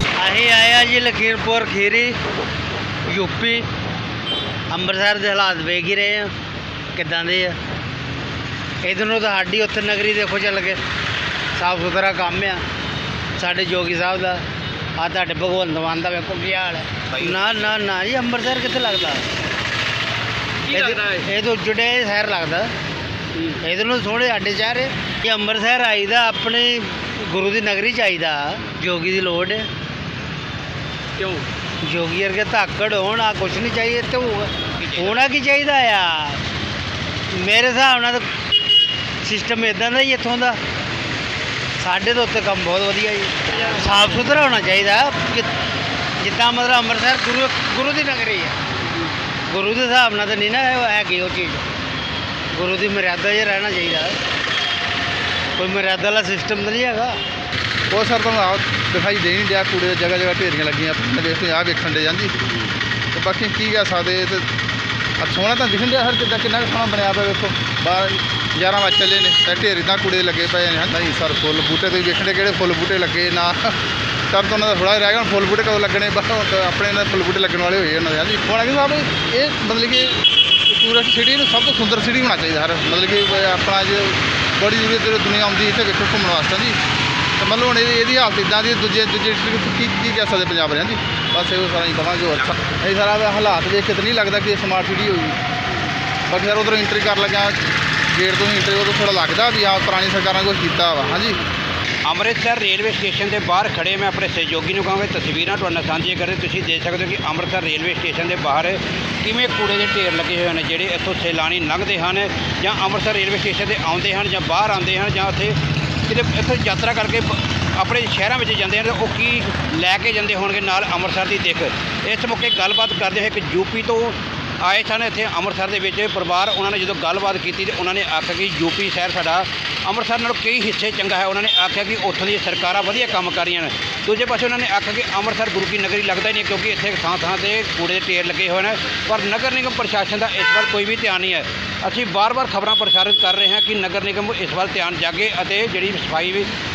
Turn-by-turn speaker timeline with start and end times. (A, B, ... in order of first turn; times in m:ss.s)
0:00.2-0:02.2 A
0:03.1-0:03.7 A
0:04.7-0:06.3 A
0:06.9-0:07.6 A
0:08.8-0:10.8 A
0:11.6-0:12.6 A
0:13.4-0:14.4 A
0:15.0-0:19.3 A
0:17.1-0:17.8 B
0:20.7-0:21.2 B
0:20.7-0:22.7 A
0:23.4-0:23.6 B
0:23.6-0:29.7 A
0:31.2-0:31.4 B
0:31.8-0:36.4 A
0:34.8-0:35.2 B
0:37.3-0:38.3 A
0:39.2-0:40.6 A
0:41.8-0:45.5 A
0:46.2-0:48.6 A
0:49.5-0:51.6 A
0:52.5-0:54.2 A
0:55.6-0:57.2 A
0:57.9-1:02.5 C
1:03.1-1:04.5 C
1:05.2-1:13.8 C
1:14.3-1:26.8 C
1:27.4-1:35.4 C
1:36.3-1:37.6 C
1:38.1-1:41.4 C
1:42.0-2:26.5 B